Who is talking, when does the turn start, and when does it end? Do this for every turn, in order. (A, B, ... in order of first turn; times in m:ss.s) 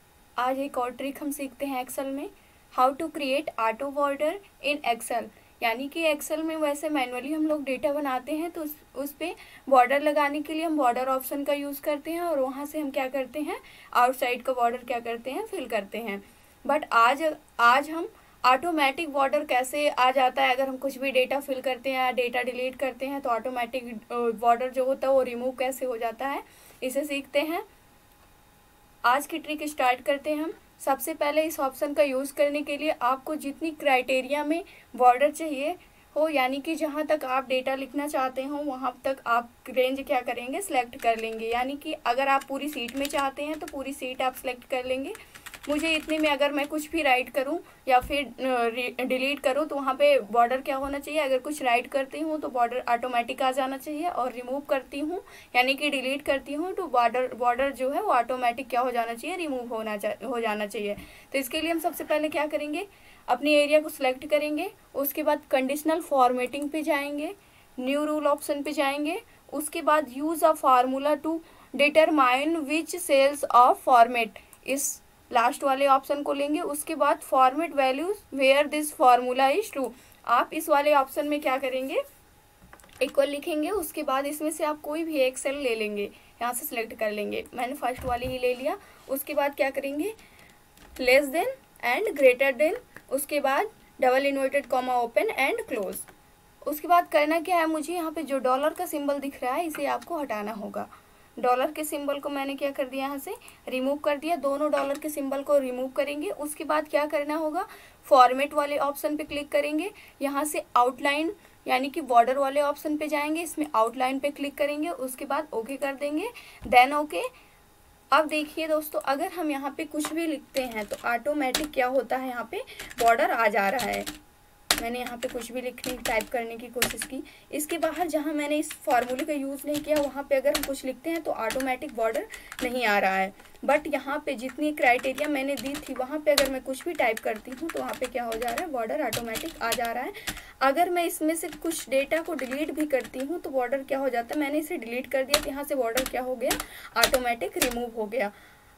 0:00.4-0:27.6 A
0:29.0-0:45.1 A
0:45.7-1:22.0 A
1:23.0-1:30.1 A
1:31.0-1:36.1 A
1:36.6-1:57.2 A
1:58.1-2:04.1 A
2:04.8-2:28.3 A